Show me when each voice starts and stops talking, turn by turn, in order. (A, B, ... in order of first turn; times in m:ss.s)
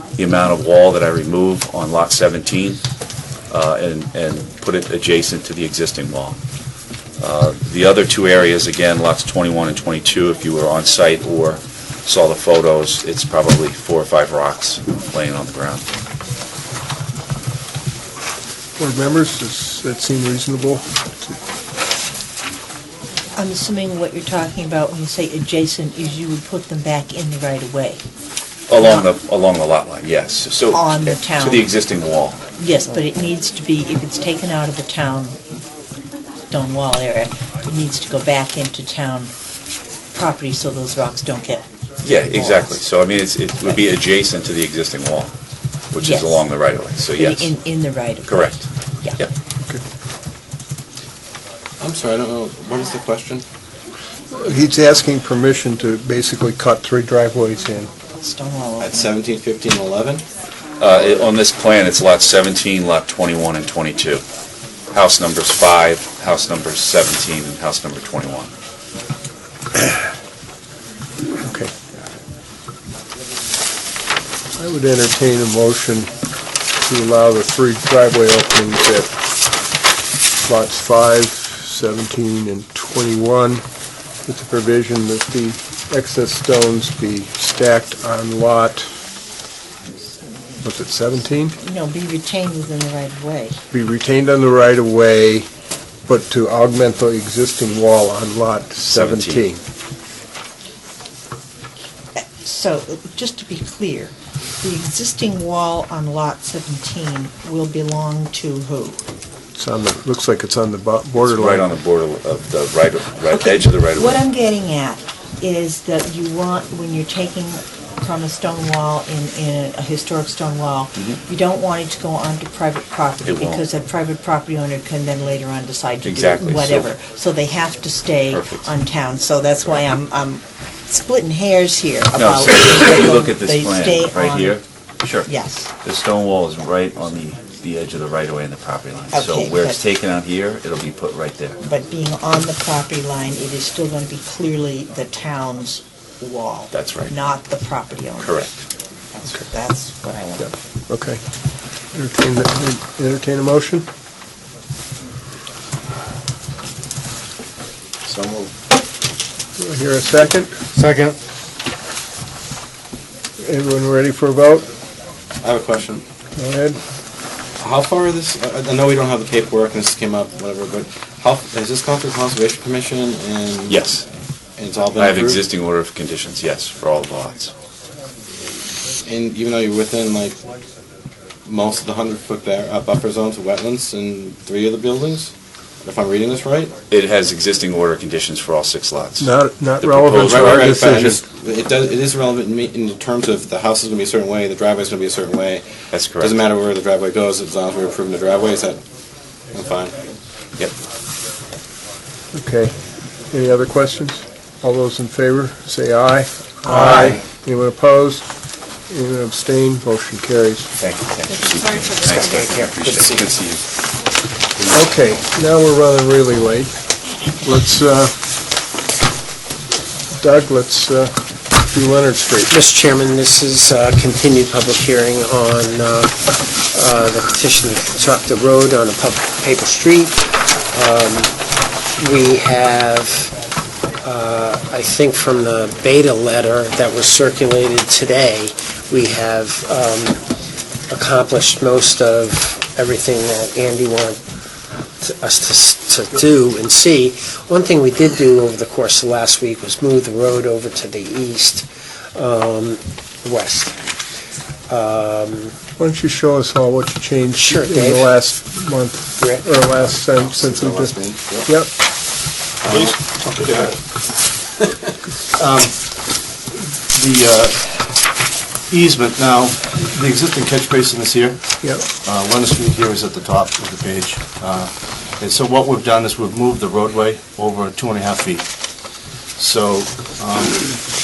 0:00.2-0:02.8 A
0:03.5-0:06.4 A
0:07.2-0:15.8 A
0:18.8-0:21.4 B
0:23.4-0:28.0 C
0:28.7-0:32.4 A
0:28.8-0:29.1 C
0:30.7-0:31.7 C
0:32.6-0:35.4 C
0:36.5-0:39.3 C
0:40.1-0:41.6 C
0:42.0-0:45.3 A
0:42.3-0:42.8 C
0:45.9-0:47.5 A
0:46.0-0:46.5 C
0:47.1-0:49.2 C
0:48.2-0:48.6 A
0:51.8-0:53.4 D
0:54.3-0:57.9 B
0:58.2-0:59.0 C
0:58.8-1:00.2 D
1:00.8-1:04.2 A
1:04.9-1:08.5 A
1:11.4-1:11.7 B
1:14.6-1:16.1 B
1:16.8-1:19.1 B
1:20.4-1:23.6 B
1:24.2-1:28.9 B
1:30.6-1:31.6 B
1:31.6-1:33.6 C
1:33.7-1:35.5 B
1:36.1-1:39.6 B
1:38.8-1:39.4 A
1:42.4-1:49.0 C
1:49.6-1:51.7 B
1:51.2-1:54.2 A
1:53.3-2:14.6 C
2:03.2-2:03.6 A
2:06.0-2:06.9 A
2:08.3-2:08.7 A
2:12.2-2:15.3 A
2:15.2-2:15.7 C
2:15.8-2:21.6 A
2:19.1-2:19.8 C
2:21.6-2:28.5 C
2:26.7-2:27.1 A
2:28.2-2:28.5 A
2:29.1-2:30.5 C
2:30.9-2:31.2 B
2:31.9-2:33.8 B
2:38.0-2:38.5 D
2:39.6-2:40.5 B
2:40.8-2:41.2 E
2:43.4-2:44.6 B
2:45.4-2:46.0 D
2:46.4-2:46.8 B
2:47.6-2:53.8 D
2:53.7-2:54.0 A
2:54.6-2:55.4 D
2:55.0-2:57.5 A
2:59.0-3:00.4 D
3:01.4-3:05.3 D
3:05.8-3:06.7 D
3:06.9-3:11.1 A
3:09.2-3:11.2 B
3:10.2-3:15.6 D
3:15.9-3:16.3 A
3:16.2-3:18.8 D
3:19.5-3:20.0 D
3:22.3-3:22.8 B
3:23.3-3:28.2 B
3:26.7-3:27.0 E
3:28.9-3:30.7 B
3:30.8-3:33.6 A
3:32.4-3:33.1 E
3:34.6-3:34.8 A
3:34.7-3:36.7 B
3:37.4-3:38.1 B
3:40.2-3:42.5 B
3:42.5-3:50.2 E
3:50.7-3:51.3 E
3:52.0-3:53.3 E
3:54.0-4:00.2 E
4:00.9-4:04.2 E
4:05.0-4:13.8 E
4:14.7-4:15.6 E
4:15.8-4:21.7 B
4:17.4-4:18.1 E
4:19.2-4:19.5 E
4:20.2-4:21.5 D
4:22.7-4:23.4 D
4:23.2-4:23.8 F
4:25.3-4:26.1 F
4:26.9-4:27.9 F
4:28.7-4:38.5 F
4:39.4-4:40.8 F